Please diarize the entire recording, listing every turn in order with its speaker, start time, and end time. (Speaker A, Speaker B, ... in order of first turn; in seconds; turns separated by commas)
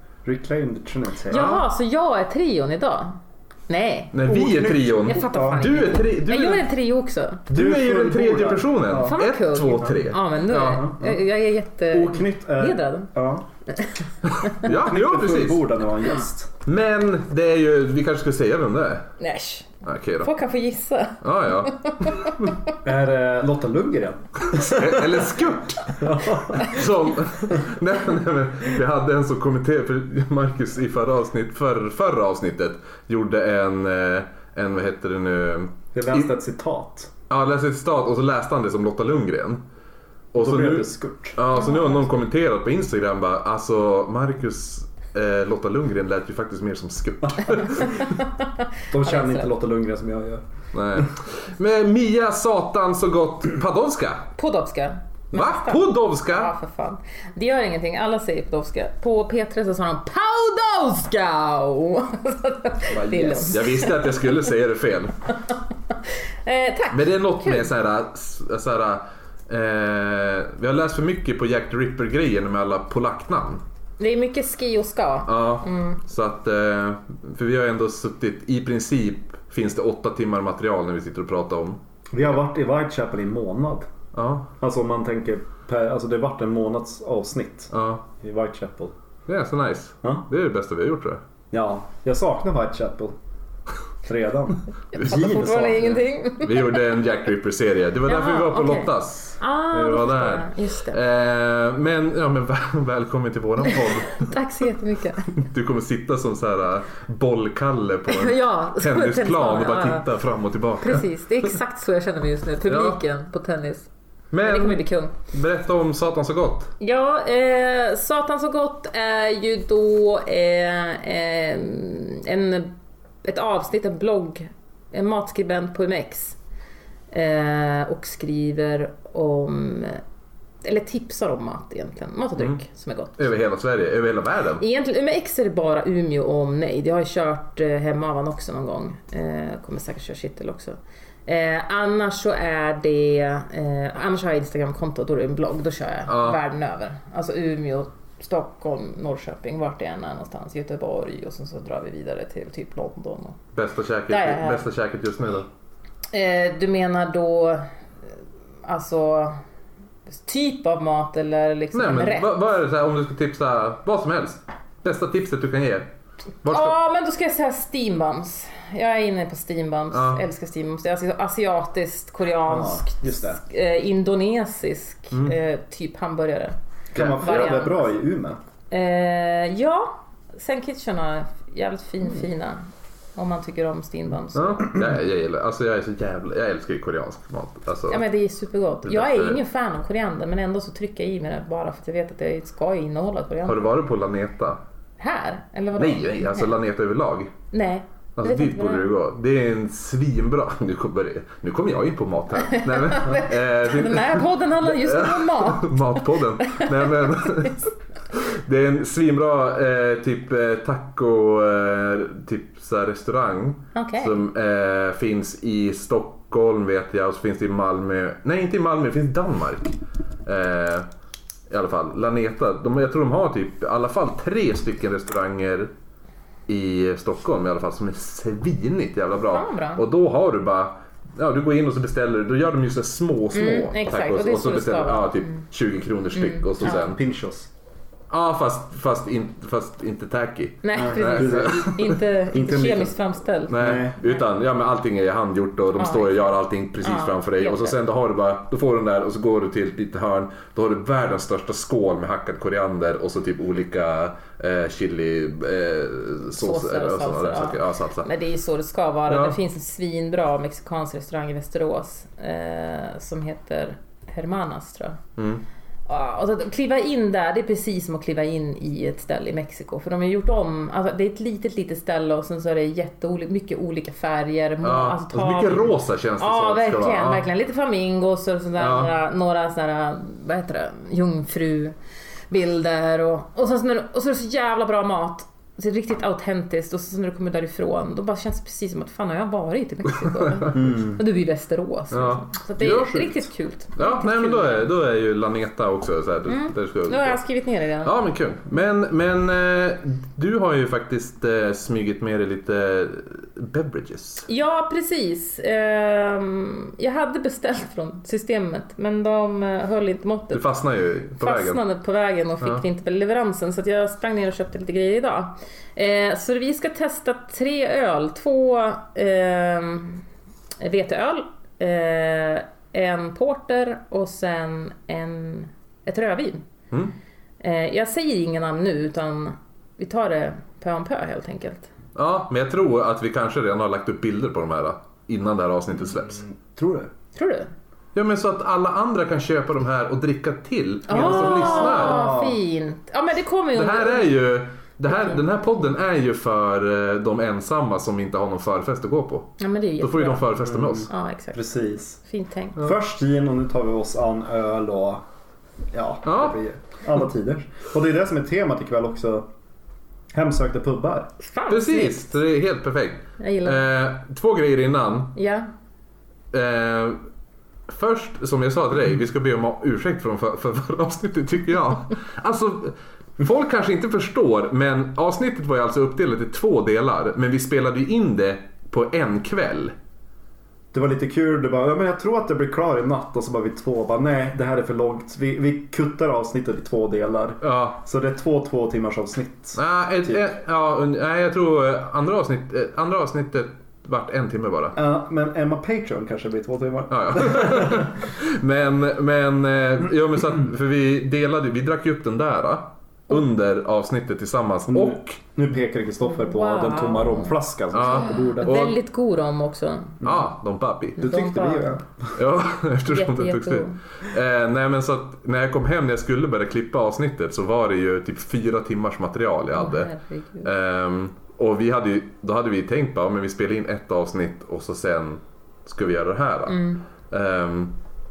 Speaker A: 0.2-1.6, Speaker B: 1.3-4.2, Speaker C: 1.3-1.6, Speaker C: 4.1-6.7, Speaker A: 4.2-5.7, Speaker B: 5.0-7.4, Speaker C: 7.5-10.8, Speaker A: 7.5-9.2, Speaker B: 9.0-13.1, Speaker A: 10.6-11.2, Speaker A: 11.9-13.4, Speaker B: 13.7-14.7, Speaker C: 14.4-15.7, Speaker A: 14.6-16.5, Speaker C: 16.6-19.0, Speaker B: 19.2-21.2, Speaker C: 19.8-20.3, Speaker C: 21.2-22.5, Speaker B: 21.9-22.5, Speaker A: 22.8-25.2, Speaker C: 24.4-36.3, Speaker A: 25.9-26.8, Speaker A: 35.9-37.1, Speaker C: 37.3-39.6, Speaker C: 40.3-48.1, Speaker A: 40.3-41.4, Speaker B: 41.6-41.9, Speaker B: 48.0-48.5, Speaker A: 48.9-51.1, Speaker B: 49.0-49.5, Speaker C: 50.7-54.3, Speaker B: 54.4-64.2, Speaker C: 55.3-56.5, Speaker C: 62.9-65.1, Speaker B: 65.9-67.7, Speaker C: 66.9-73.6, Speaker B: 74.0-76.0, Speaker C: 75.2-81.8, Speaker A: 82.1-83.9, Speaker C: 84.1-84.5, Speaker A: 84.6-88.9, Speaker C: 87.7-88.1, Speaker C: 89.3-91.2, Speaker A: 91.5-93.2, Speaker A: 94.0-96.0, Speaker B: 94.9-96.8, Speaker C: 96.4-104.3, Speaker B: 98.1-101.0, Speaker B: 103.7-105.3, Speaker C: 105.3-111.5, Speaker B: 108.1-110.0, Speaker B: 110.8-113.9, Speaker C: 112.7-113.0, Speaker C: 114.3-116.7, Speaker B: 114.4-115.1, Speaker B: 116.8-126.4, Speaker B: 127.1-130.0, Speaker B: 130.6-133.2, Speaker C: 133.2-134.6, Speaker B: 134.6-153.4, Speaker C: 146.1-146.4, Speaker C: 153.5-155.5, Speaker B: 154.1-154.6, Speaker B: 156.1-157.7, Speaker B: 158.6-159.4, Speaker B: 160.1-162.3, Speaker C: 161.7-165.9, Speaker C: 166.4-166.8, Speaker B: 166.4-177.9, Speaker C: 169.9-170.2, Speaker A: 172.5-173.4, Speaker A: 176.9-178.4, Speaker C: 176.9-177.2, Speaker B: 178.7-182.6, Speaker B: 183.2-184.8, Speaker C: 184.3-188.0, Speaker B: 187.9-193.7, Speaker C: 188.8-189.4, Speaker C: 193.4-194.6, Speaker B: 195.0-196.5, Speaker C: 195.8-197.3, Speaker B: 197.5-198.9, Speaker C: 198.2-219.7, Speaker B: 202.4-207.5, Speaker B: 213.7-214.2, Speaker C: 220.2-220.9, Speaker C: 221.5-225.7, Speaker C: 226.5-237.0, Speaker B: 229.3-229.8, Speaker B: 233.3-235.4, Speaker B: 236.2-236.8, Speaker A: 236.6-237.5, Speaker C: 238.1-242.0, Speaker B: 240.6-244.2, Speaker A: 240.8-242.9, Speaker C: 243.5-258.1, Speaker A: 243.5-244.0, Speaker B: 245.8-247.8, Speaker B: 256.4-265.0, Speaker C: 259.1-259.4, Speaker C: 265.2-265.4, Speaker B: 265.9-281.8, Speaker C: 274.6-277.2, Speaker C: 278.6-278.9, Speaker B: 282.3-294.7, Speaker C: 290.2-290.6, Speaker A: 290.5-291.0, Speaker C: 291.9-293.2, Speaker A: 292.6-292.9, Speaker C: 293.8-297.2, Speaker B: 296.3-297.9, Speaker C: 297.8-304.2, Speaker B: 304.3-310.4, Speaker C: 310.3-311.6, Speaker B: 311.2-320.0, Speaker B: 320.6-326.4, Speaker B: 327.4-331.7, Speaker C: 331.9-336.2, Speaker A: 336.1-336.9, Speaker B: 337.1-337.5, Speaker C: 337.9-342.1, Speaker B: 340.9-344.1, Speaker A: 340.9-342.4, Speaker C: 343.6-350.9, Speaker B: 349.4-350.3, Speaker A: 350.6-352.0, Speaker B: 350.9-351.4, Speaker B: 352.0-352.6, Speaker A: 352.6-355.0, Speaker A: 355.7-359.3, Speaker C: 356.1-356.4, Speaker A: 360.1-361.1, Speaker B: 361.2-362.2, Speaker C: 361.5-365.1, Speaker B: 363.2-363.6, Speaker B: 365.1-365.5, Speaker C: 366.3-367.0, Speaker C: 367.7-379.7, Speaker A: 380.7-390.2, Speaker C: 387.4-387.8, Speaker C: 389.6-394.8, Speaker A: 394.8-397.9, Speaker C: 396.9-405.2, Speaker A: 404.7-408.6, Speaker B: 406.0-410.0, Speaker C: 407.7-408.8, Speaker A: 410.0-410.3, Speaker C: 410.0-411.1, Speaker A: 411.0-411.9, Speaker B: 411.0-411.8, Speaker C: 412.1-419.9, Speaker B: 412.9-413.8, Speaker B: 419.5-420.5, Speaker C: 420.4-427.7, Speaker B: 426.5-426.8